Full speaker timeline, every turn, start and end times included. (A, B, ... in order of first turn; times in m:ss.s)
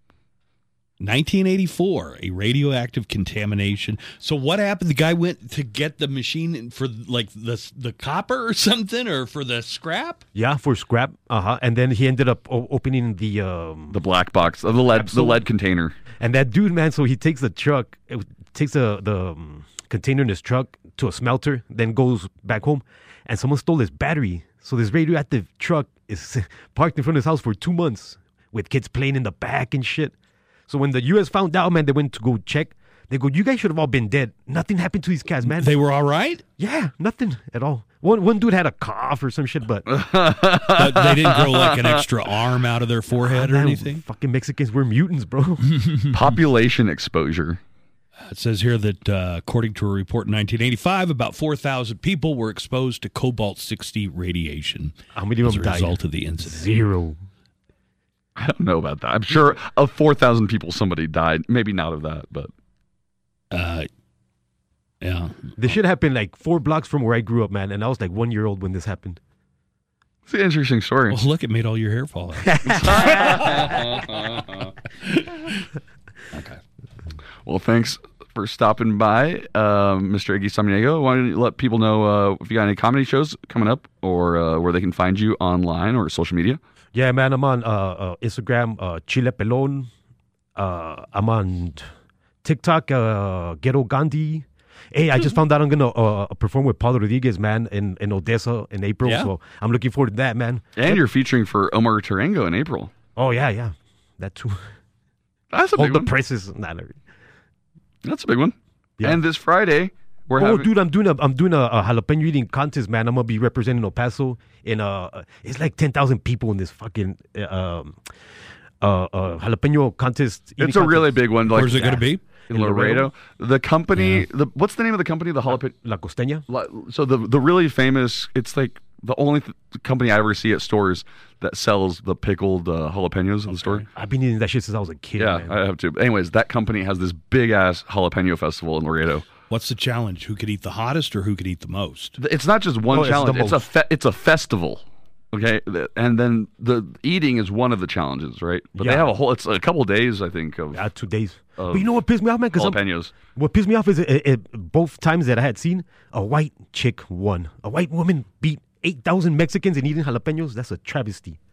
0:01.0-0:10.2 A
0:10.4-0:14.0 B
0:13.9-0:16.0 C
0:14.9-0:15.4 B
0:16.2-0:30.1 B
0:30.7-0:35.7 B
0:35.5-0:36.4 A
0:36.6-0:39.9 B
0:39.9-0:42.0 C
0:40.7-0:44.0 A
0:43.2-0:45.8 B
0:46.1-0:47.6 C
0:48.3-0:56.8 A
0:55.1-0:57.2 B
0:58.4-1:02.5 C
1:03.5-1:03.9 A
1:05.0-1:05.6 A
1:05.6-1:09.2 B
1:10.3-1:11.2 C
1:11.1-1:13.9 A
1:12.5-1:13.6 B
1:12.7-1:14.7 C
1:15.0-1:15.7 A
1:16.3-1:16.6 A
1:17.4-1:26.6 C
1:26.9-1:29.9 B
1:30.6-1:31.9 B
1:32.4-1:41.0 B
1:39.1-1:39.3 A
1:40.8-1:42.9 C
1:43.2-1:44.7 B
1:45.5-1:46.1 C
1:45.7-1:47.0 B
1:48.0-1:50.7 C
1:50.4-1:58.0 B
1:58.8-2:03.1 B
2:00.6-2:05.8 C
2:01.5-2:02.2 A
2:04.0-2:04.3 A
2:05.8-2:06.4 B
2:06.5-2:13.9 C
2:13.6-2:13.9 A
2:13.9-2:15.6 B
2:15.2-2:19.3 C
2:19.5-2:22.2 A
2:22.2-2:30.8 C
2:22.9-2:23.7 B
2:28.8-2:29.1 B
2:30.7-2:41.4 B
2:31.6-2:31.9 C
2:32.6-2:33.1 C